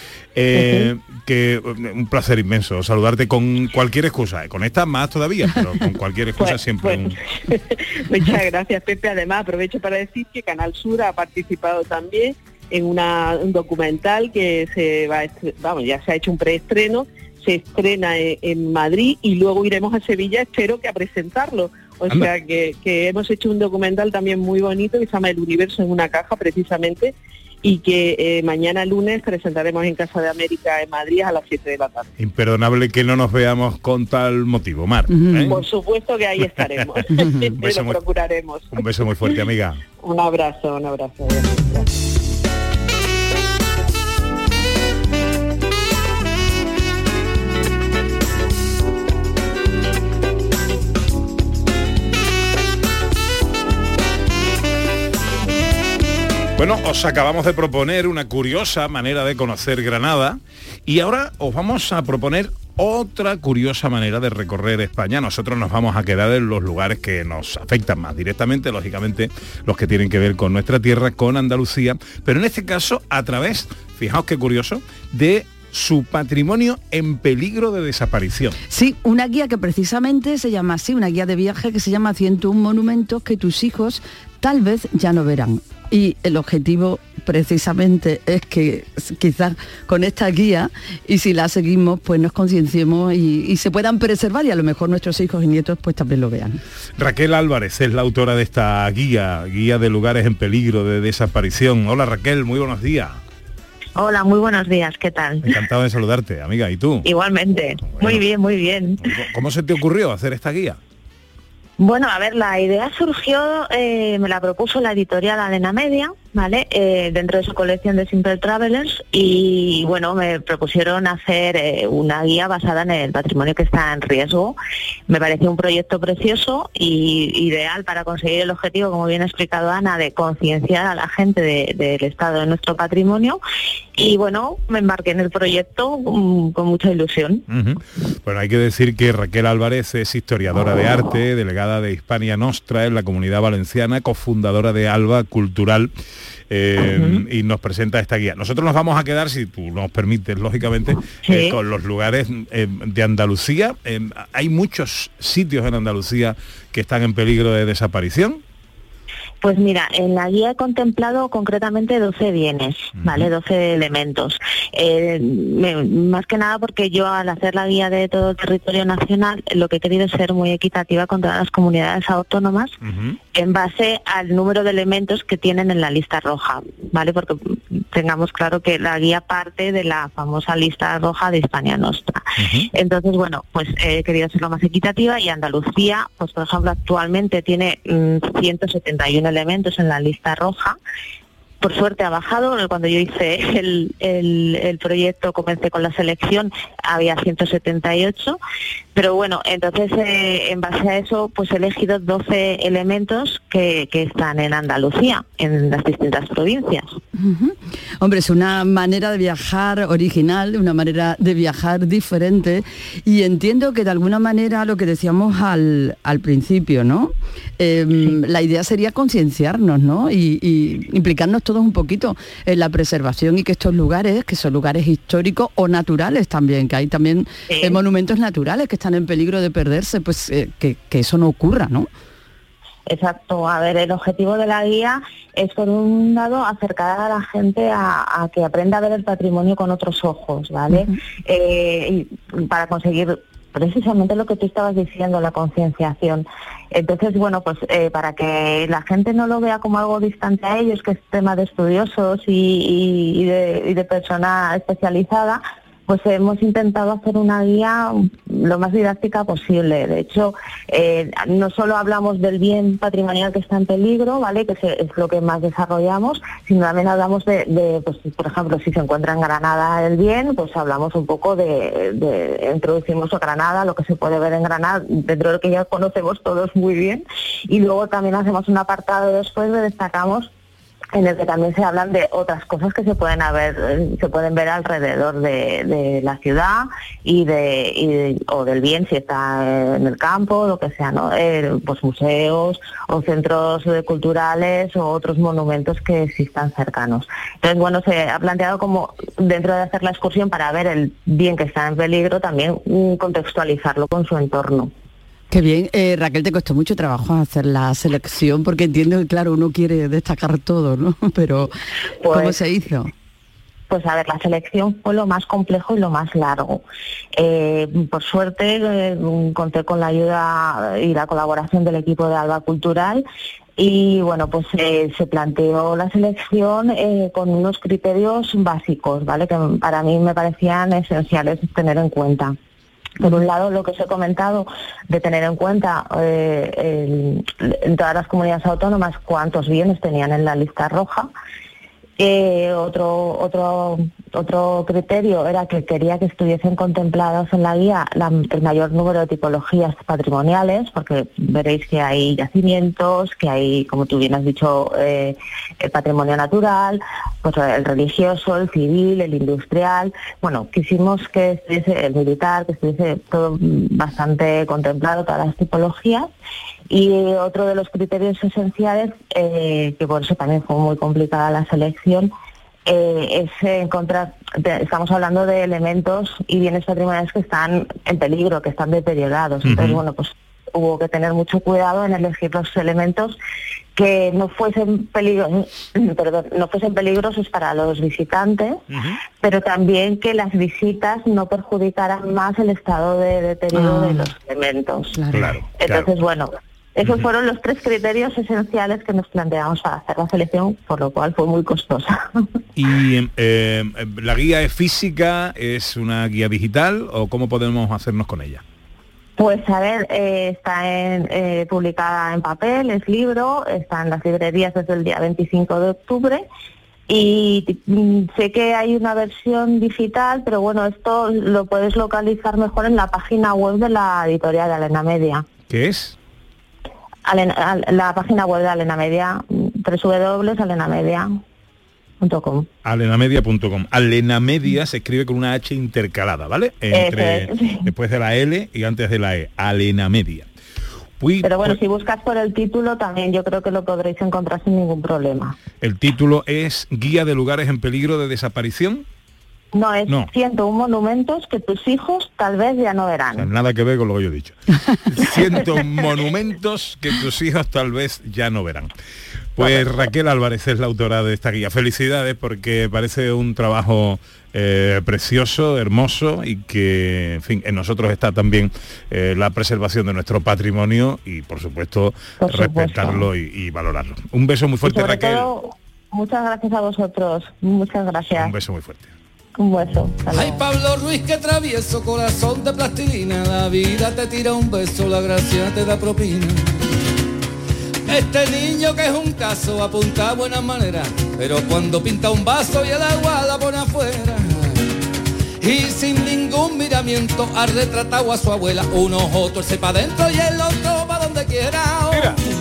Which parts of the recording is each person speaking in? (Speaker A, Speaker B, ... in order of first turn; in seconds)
Speaker A: 0.3-7.2, 32.2-35.6, 36.6-37.1, 37.6-38.0, 38.7-39.8, 56.6-78.6, 97.0-103.2, 105.4-107.1, 108.0-108.2, 109.0-110.8, 137.5-145.9, 146.5-158.4, 163.0-163.3, 172.8-173.2, 182.4-182.7, 379.4-379.8, 388.7-389.0, 395.1-395.9, 402.6-408.4, 425.5-426.0, 432.6-440.3, 441.0-441.6, 445.6-448.9, 453.1-454.4, 454.9-458.7, 459.4-475.3, 478.1-478.9, 501.9-502.2
Speaker B: 6.4-32.1, 35.5-38.8, 40.0-41.9
Speaker C: 35.1-35.6, 37.1-37.6, 78.7-96.6, 207.2-231.9, 305.3-311.5, 312.1-312.9, 393.6-394.1, 394.9-395.4
Speaker D: 104.0-105.5, 107.0-109.0, 111.8-124.6, 125.1-133.4, 134.0-137.4, 146.8-147.2, 151.2-151.6, 159.4-172.7, 173.3-190.8, 191.6-198.4, 198.9-206.9, 227.5-227.8, 232.9-280.3, 280.9-304.7, 312.0-312.4, 313.7-316.6, 317.2-323.0, 323.6-332.4, 333.0-341.1, 342.0-366.1, 366.7-372.1, 372.7-383.2, 383.8-388.6, 389.2-395.0, 395.6-402.2, 409.2-416.2, 416.9-425.2, 427.1-431.2, 432.0-432.5, 436.7-437.7, 441.2-445.4, 449.5-453.3, 472.2-473.1, 474.6-478.3, 479.4-480.4
Speaker E: 480.1-486.5, 487.9-494.6, 495.4-502.2